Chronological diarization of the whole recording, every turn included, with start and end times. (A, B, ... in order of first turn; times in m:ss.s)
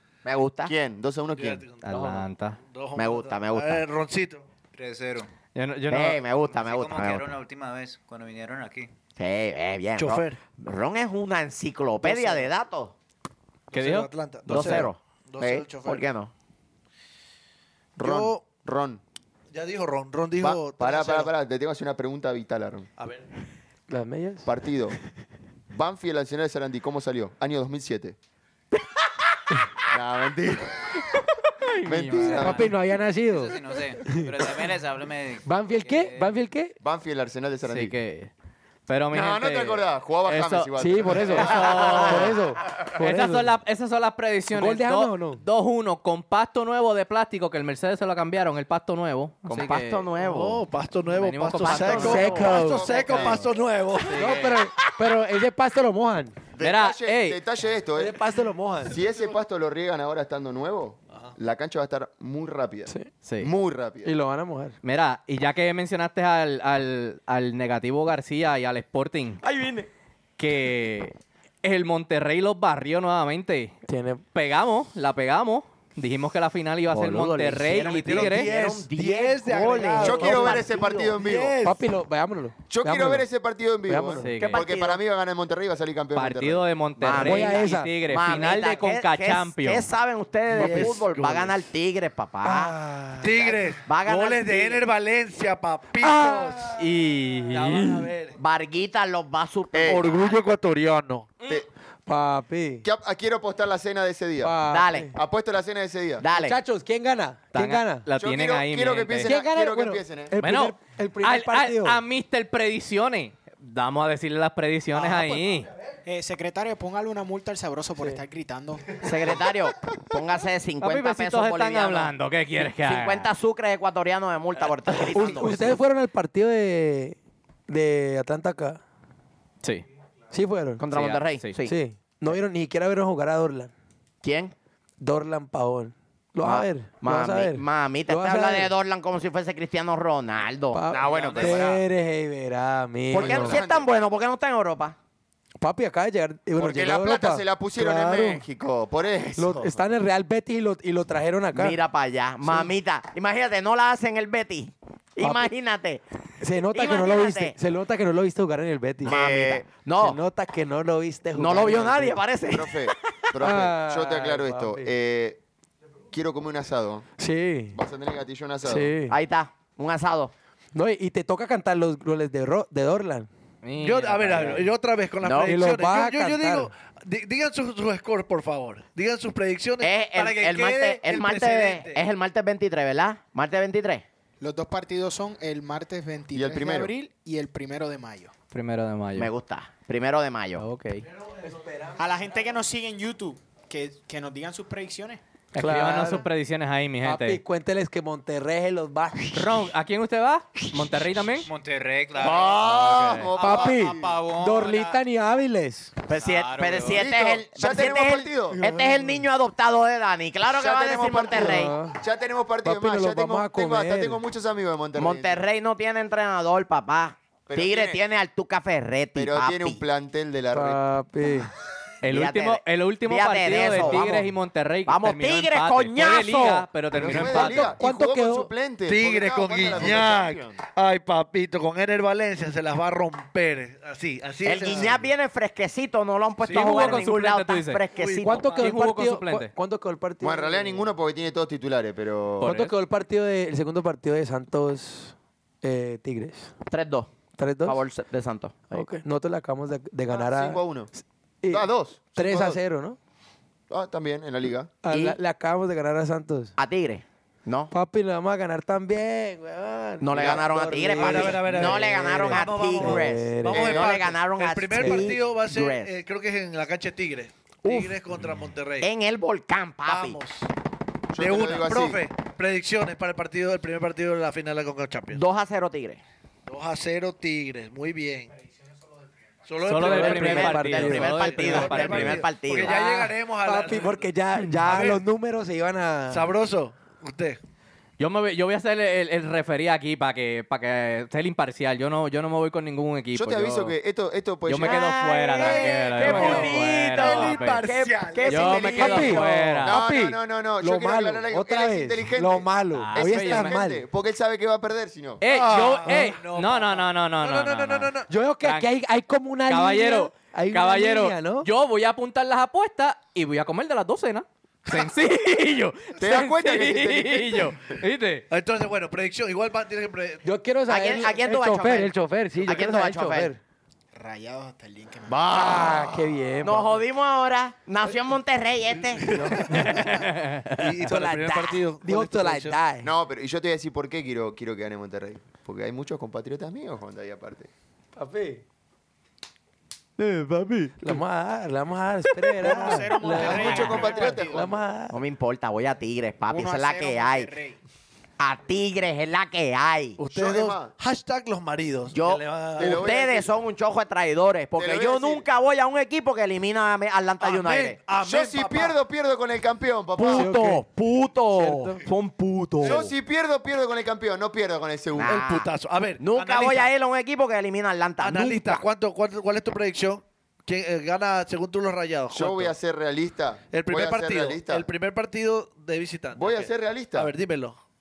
0:00.2-0:00.7 A
0:00.6-0:01.6 B
0:01.3-0:04.4 C
0:01.8-0:02.6 D
0:02.9-0:03.8 A
0:04.7-0:05.3 E
0:05.5-0:06.2 D
0:05.9-0:07.3 A
0:06.5-0:08.9 E
0:09.2-0:13.0 A
0:10.0-0:10.4 C
0:12.0-0:12.5 C
0:13.7-0:14.8 D
0:13.7-0:16.1 C
0:14.4-0:16.3 A
0:18.0-0:19.0 B
0:18.0-0:18.4 C
0:19.5-0:21.3 C
0:20.4-0:22.9 B
0:23.0-0:23.3 C
0:23.9-0:24.5 F
0:24.4-0:25.0 B
0:25.7-0:28.2 B
0:29.9-0:31.0 B
0:31.6-0:32.6 D
0:31.8-0:32.8 B
0:32.3-0:36.3 E
0:32.3-0:34.3 F
0:35.4-0:36.8 F
0:36.8-0:37.9 B
0:37.6-0:38.3 D
0:38.9-0:42.4 D
0:39.1-0:42.4 B
0:40.8-0:43.5 F
0:43.0-0:50.1 D
0:44.5-0:45.4 F
0:49.4-0:50.6 A
0:50.2-0:54.5 C
0:51.1-0:53.4 D
0:51.6-0:52.4 A
0:51.9-0:53.1 F
0:52.2-0:53.6 B
0:54.1-0:54.7 D
0:54.1-0:56.4 F
0:56.5-0:58.2 B
0:56.6-0:57.4 D
0:58.0-0:59.0 F
0:58.9-1:04.1 B
1:03.2-1:03.5 D
1:04.0-1:04.8 F
1:04.8-1:09.4 D
1:09.4-1:09.9 A
1:10.4-1:13.8 D
1:13.9-1:14.2 F
1:14.3-1:18.5 D
1:16.9-1:21.1 A
1:17.7-1:21.9 C
1:20.0-1:21.6 B
1:21.6-1:23.2 F
1:22.7-1:26.7 B
1:23.8-1:24.4 F
1:24.2-1:24.6 D
1:24.4-1:25.0 A
1:26.1-1:29.9 D
1:27.0-1:34.8 A
1:27.1-1:27.9 F
1:30.5-1:31.2 F
1:30.5-1:31.6 C
1:32.4-1:33.3 F
1:33.2-1:36.8 C
1:36.0-1:36.6 F
1:36.7-1:38.1 D
1:37.5-1:38.4 C
1:38.4-1:40.4 A
1:39.7-1:40.1 B
1:39.8-1:41.3 C
1:42.0-1:42.8 F
1:42.8-1:44.6 B
1:44.4-1:45.1 F
1:44.7-1:45.1 A
1:45.1-1:46.2 B
1:46.2-1:46.6 A
1:46.3-1:48.0 F
1:47.5-1:49.4 D
1:48.2-1:50.3 B
1:49.2-1:52.0 F
1:50.4-1:55.7 D
1:56.0-1:59.0 G
1:59.0-2:02.1 A
2:00.8-2:03.3 D
2:02.8-2:05.8 A
2:05.0-2:07.2 F
2:07.7-2:08.8 F
2:09.6-2:09.9 D
2:10.3-2:10.8 F
2:10.8-2:11.8 A
2:10.9-2:11.5 D
2:11.6-2:13.7 F
2:14.2-2:14.5 A
2:15.0-2:18.7 F
2:16.4-2:21.6 A
2:20.7-2:23.6 F
2:20.9-2:21.8 B
2:23.1-2:25.0 A
2:23.2-2:23.9 B
2:25.6-2:28.4 F
2:26.6-2:29.7 B
2:29.4-2:31.8 F
2:31.5-2:36.0 A
2:32.4-2:32.7 F
2:35.2-2:35.5 F
2:36.4-2:39.2 F
2:36.7-2:37.6 A
2:39.0-2:40.2 A
2:39.0-2:39.6 B
2:40.0-2:42.2 F
2:41.3-2:43.3 A
2:42.5-2:45.4 B
2:43.4-2:44.9 F
2:46.1-2:47.1 B
2:47.2-2:47.8 F
2:47.8-2:48.9 B
2:48.6-2:49.2 F
2:49.0-2:50.3 A
2:50.7-2:53.3 F
2:53.6-2:54.7 D
2:53.8-3:02.0 C
2:55.2-2:55.6 A
2:55.4-2:56.7 F
2:59.8-3:04.0 A
3:04.4-3:08.3 G
3:06.3-3:06.9 B
3:08.5-3:09.3 D
3:09.2-3:10.6 A
3:10.6-3:11.0 D
3:11.4-3:12.0 F
3:12.0-3:15.2 G
3:15.5-3:16.2 F
3:15.5-3:17.4 D
3:17.0-3:19.6 F
3:19.3-3:21.5 D
3:21.4-3:25.0 E
3:22.2-3:24.2 B
3:22.8-3:23.0 D
3:23.4-3:26.0 F
3:26.1-3:31.7 A
3:26.1-3:27.1 E
3:26.9-3:28.6 B
3:28.6-3:29.2 F
3:30.5-3:35.4 B
3:31.3-3:32.0 F
3:32.6-3:34.2 F
3:35.0-3:39.8 A
3:37.5-3:38.0 B
3:39.2-3:40.8 B
3:40.5-3:41.5 F
3:42.0-3:47.8 D
3:42.1-3:44.2 A
3:43.8-3:44.3 F
3:44.8-3:46.7 A
3:46.9-3:50.6 B
3:47.2-3:48.5 F
3:48.9-3:55.1 C
3:54.4-3:58.6 A
3:56.4-3:57.1 C
3:56.5-3:57.8 D
3:57.9-3:58.8 C
3:58.2-4:00.9 F
3:58.6-3:59.5 D
4:00.2-4:02.5 B
4:02.4-4:02.7 D
4:02.4-4:06.5 F
4:06.7-4:08.9 A
4:07.4-4:07.8 F
4:08.7-4:13.0 F
4:10.1-4:10.9 B
4:11.5-4:12.6 B
4:13.7-4:14.8 B
4:14.8-4:16.5 F
4:14.9-4:15.2 A
4:16.6-4:17.7 A
4:17.7-4:23.8 F
4:20.0-4:25.9 A
4:20.1-4:20.4 B
4:20.9-4:28.9 C
4:23.5-4:23.9 B
4:24.8-4:25.1 F
4:27.6-4:28.0 F
4:28.8-4:30.2 A
4:29.8-4:30.5 C
4:31.1-4:32.0 B
4:31.2-4:35.2 C
4:35.1-4:36.0 A
4:36.4-4:38.3 C
4:39.4-4:45.0 C
4:39.6-4:42.3 D
4:39.8-4:41.6 F
4:39.9-4:42.8 A
4:42.6-4:46.3 F
4:46.1-4:47.4 C
4:48.0-4:53.8 D
4:53.1-4:55.7 B
4:54.5-4:57.7 D
4:54.6-4:57.2 A
4:55.3-4:59.2 C
4:56.0-5:03.8 F
4:58.0-4:59.3 A
4:58.2-4:59.8 D
4:59.6-5:05.2 B
5:02.7-5:03.6 D
5:05.2-5:08.7 D
5:05.2-5:08.1 C
5:05.7-5:06.2 F
5:08.1-5:11.5 F
5:09.5-5:18.2 D
5:16.0-5:17.6 B
5:18.3-5:20.2 C
5:20.2-5:23.4 F
5:20.7-5:23.3 A
5:23.9-5:25.6 G
5:25.1-5:29.4 A
5:25.2-5:26.8 F
5:25.4-5:25.7 B
5:29.0-5:32.6 C
5:29.1-5:29.7 F
5:29.5-5:30.7 D
5:30.8-5:32.9 F
5:32.8-5:37.5 B
5:38.0-5:38.4 F
5:40.0-5:45.0 F
5:42.3-5:44.5 G
5:43.0-5:44.6 B
5:44.9-5:47.3 A
5:46.2-5:47.6 G
5:48.2-5:50.0 A
5:50.0-5:53.0 C
5:50.1-5:50.7 B
5:51.9-5:57.8 A
5:52.6-5:53.3 B
5:54.6-5:55.3 B
5:57.2-5:58.8 C
5:58.0-6:00.4 B
6:00.0-6:02.9 A
6:00.1-6:00.6 F
6:01.4-6:01.9 F
6:02.6-6:05.2 B
6:05.0-6:08.7 A
6:05.0-6:06.7 C
6:08.0-6:12.5 C
6:12.1-6:14.7 B
6:13.5-6:17.6 C
6:16.2-6:17.1 B